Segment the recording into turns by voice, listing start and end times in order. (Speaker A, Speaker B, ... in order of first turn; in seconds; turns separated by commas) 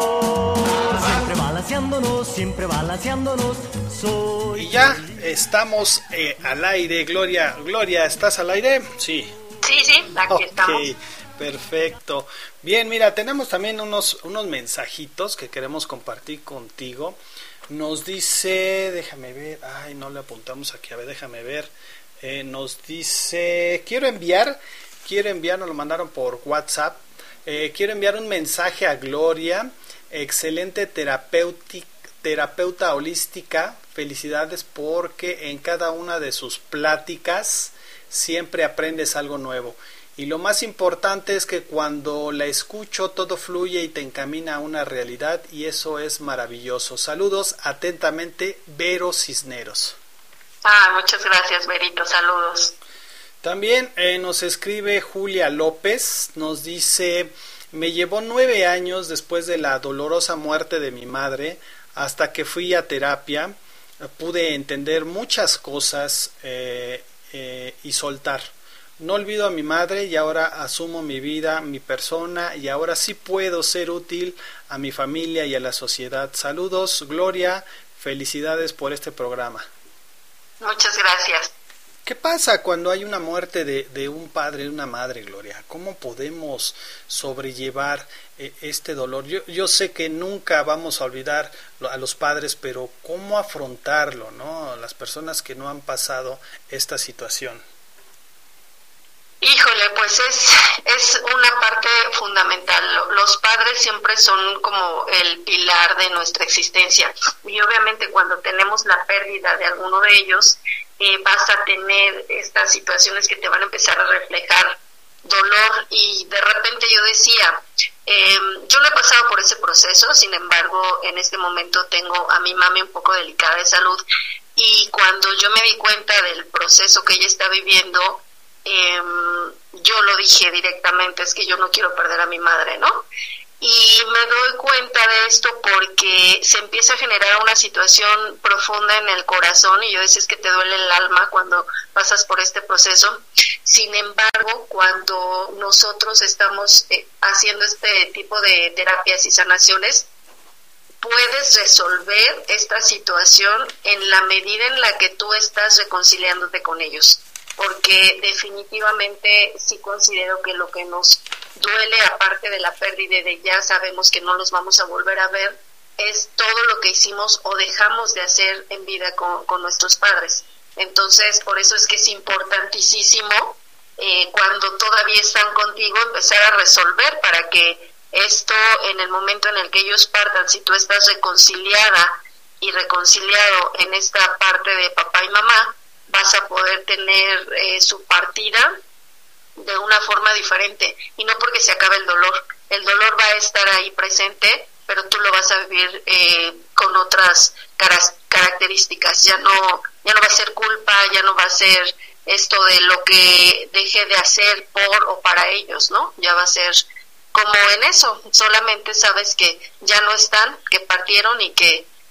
Speaker A: 0.7-4.9, Speaker B: 4.5-9.3, Speaker C: 9.6-10.9, Speaker B: 10.3-50.0, Speaker C: 50.6-52.7, Speaker B: 53.4-79.7, Speaker C: 80.6-81.5, Speaker B: 82.0-97.6, Speaker C: 99.4-124.0, Speaker C: 124.5-133.1, Speaker C: 133.6-150.1, Speaker C: 151.0-188.8, Speaker C: 189.6-211.9